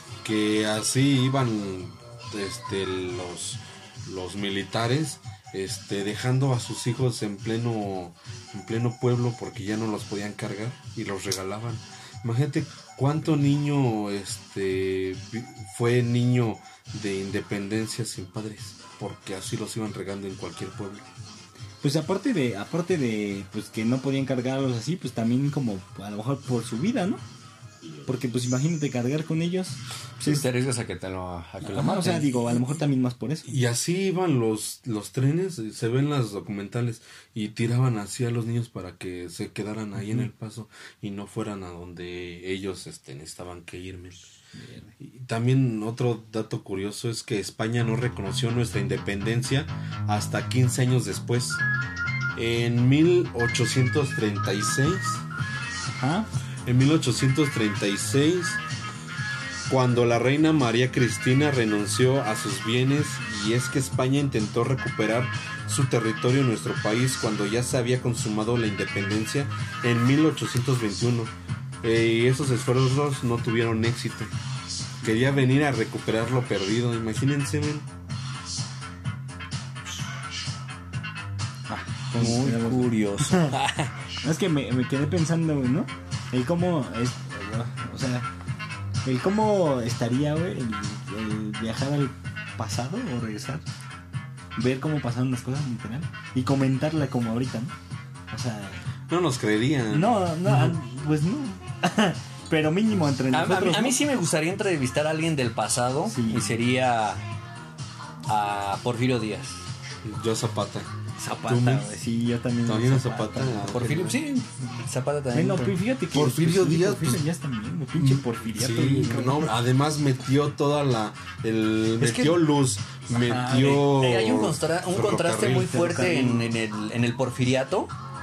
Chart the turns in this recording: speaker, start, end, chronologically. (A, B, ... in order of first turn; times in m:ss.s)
0:00.2-0:21.0 A
0:21.8-0:27.2 B
0:28.1-0:30.4 B
0:30.2-0:32.3 C
0:31.6-0:33.5 B
0:33.5-0:44.2 A
0:44.6-0:44.9 B
0:45.0-0:51.6 A
0:52.4-0:55.2 A
0:55.9-0:56.3 B
0:56.7-0:58.6 A
0:59.7-1:14.3 A
1:15.0-1:17.9 A
1:21.7-1:23.5 B
1:22.2-1:23.9 C
1:24.2-1:28.3 B
1:29.0-1:33.6 B
1:34.6-1:37.8 B
1:38.3-1:38.8 B
1:39.1-1:40.8 A
1:39.9-1:44.0 B
1:43.3-1:47.2 C
1:46.1-1:46.6 B
1:48.3-1:49.6 C
1:50.0-1:50.9 A
1:51.2-1:53.7 B
1:51.5-1:51.9 A
1:52.6-1:54.2 A
1:53.7-1:55.8 C
1:55.3-1:59.6 B
1:56.1-1:57.2 A
1:58.0-2:05.8 A
2:02.0-2:02.4 C
2:03.1-2:07.9 C
2:05.7-2:06.5 B